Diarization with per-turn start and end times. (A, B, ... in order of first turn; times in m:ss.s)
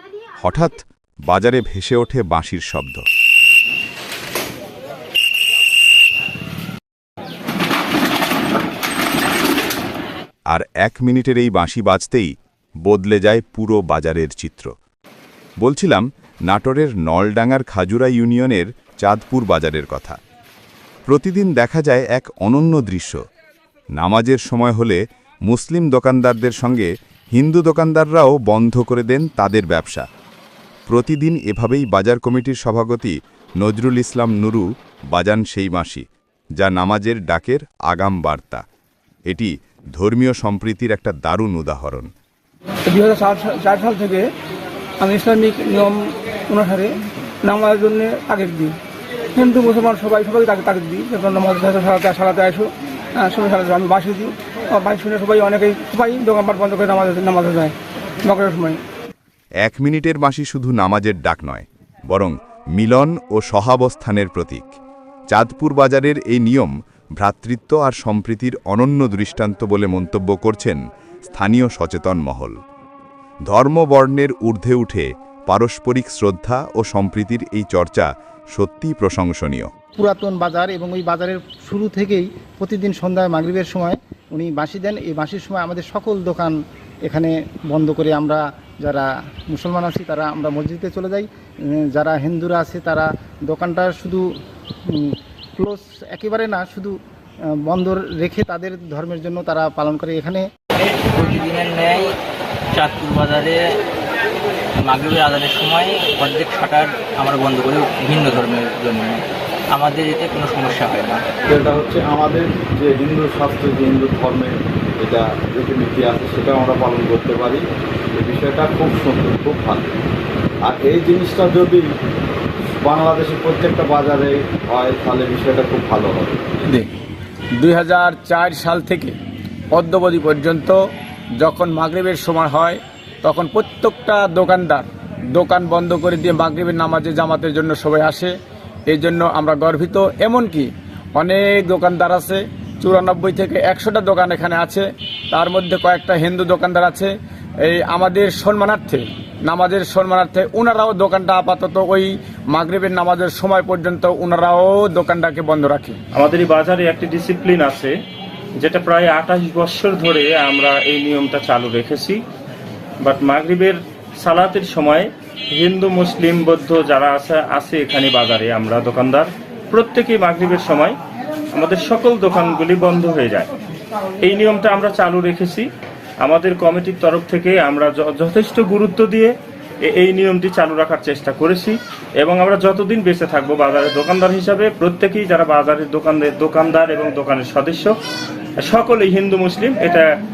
0:00.4-0:03.0 A
0:10.5-0:12.3 A
0:12.8-0:14.7 A
0:15.6-0:20.2 A
0:21.1-0:23.2 A
0:24.0-0:30.0 A
0:30.9-0:36.0 A
0:36.6-0:38.6 A
0:39.3-0:42.1 A
0:42.9-0:44.3 B
0:45.0-0:46.9 B
0:47.4-0:48.8 B
0:49.4-0:57.7 B
0:58.3-0:58.8 B
0:59.6-1:04.7 A
1:05.3-1:12.6 A
1:13.5-1:19.7 A
1:20.0-1:26.5 C
1:27.1-1:34.2 C
1:34.9-1:36.9 C
1:37.7-1:40.4 C
1:41.1-1:42.1 D
1:42.7-1:43.6 D
1:44.8-1:51.2 D
1:51.5-1:57.6 E
1:58.1-1:59.9 E
2:00.6-2:01.9 E
2:02.8-2:06.4 E
2:07.6-2:09.1 F
2:09.7-2:10.8 F
2:11.4-2:18.3 F
2:18.9-2:27.1 F
2:27.6-2:36.0 F
2:36.1-2:37.9 G
2:38.6-2:42.2 G
2:43.0-2:51.0 G
2:51.5-2:53.5 G
2:54.2-2:55.7 G
2:56.2-3:08.0 G
3:08.6-3:10.0 G